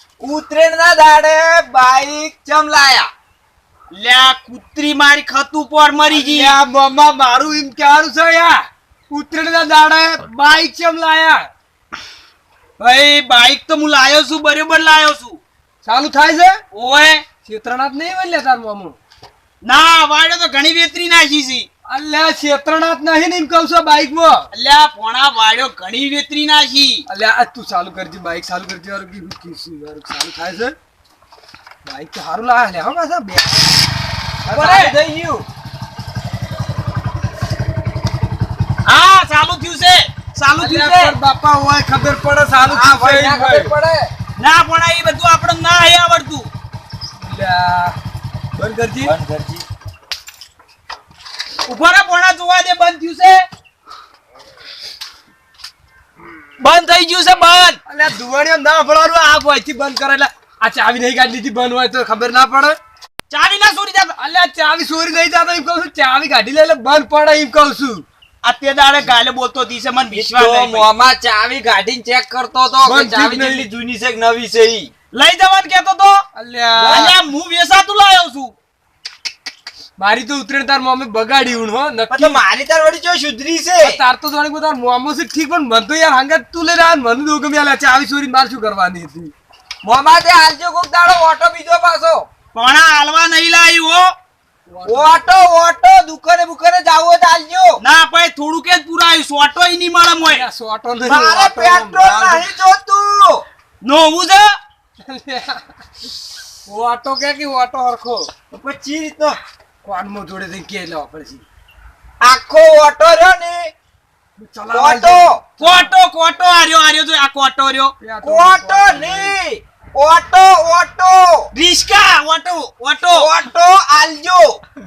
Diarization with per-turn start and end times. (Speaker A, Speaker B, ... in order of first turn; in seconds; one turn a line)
Speaker A: 0.2-3.1
Speaker B: 3.9-6.6
Speaker C: 6.1-11.5
Speaker B: 12.8-15.4
Speaker C: 15.8-16.6
Speaker B: 16.7-17.2
Speaker C: 17.4-19.0
Speaker B: 19.6-21.7
Speaker C: 21.9-24.5
Speaker B: 24.5-27.0
Speaker C: 27.1-30.7
Speaker C: 31.8-33.8
Speaker C: 34.4-35.0
Speaker A: 34.5-35.5
Speaker B: 38.8-41.1
Speaker C: 40.6-43.7
Speaker A: 42.6-44.1
Speaker B: 44.4-46.5
Speaker C: 47.2-48.0
Speaker C: 48.5-49.1
Speaker A: 49.0-49.6
Speaker B: 51.6-53.4
Speaker B: 56.6-57.8
Speaker A: 56.6-57.0
Speaker C: 57.9-62.8
Speaker B: 63.3-64.2
Speaker C: 64.2-68.0
Speaker B: 68.4-70.9
Speaker A: 70.1-74.9
Speaker C: 72.8-73.7
Speaker B: 75.1-76.2
Speaker C: 76.3-77.1
Speaker A: 76.8-77.1
Speaker B: 76.8-78.5
Speaker C: 80.0-82.4
Speaker A: 82.1-84.0
Speaker C: 83.8-89.3
Speaker A: 89.8-92.3
Speaker B: 92.5-94.1
Speaker C: 94.7-95.3
Speaker A: 94.8-97.8
Speaker B: 97.8-100.5
Speaker C: 100.2-102.5
Speaker A: 101.0-103.4
Speaker B: 103.8-104.5
Speaker C: 105.0-105.7
Speaker C: 106.7-108.3
Speaker A: 108.5-109.4
Speaker C: 109.8-111.4
Speaker A: 112.2-113.7
Speaker C: 114.4-116.0
Speaker A: 114.7-115.4
Speaker B: 115.6-117.9
Speaker C: 118.0-119.4
Speaker A: 118.2-121.5
Speaker B: 121.5-123.3
Speaker A: 123.1-124.6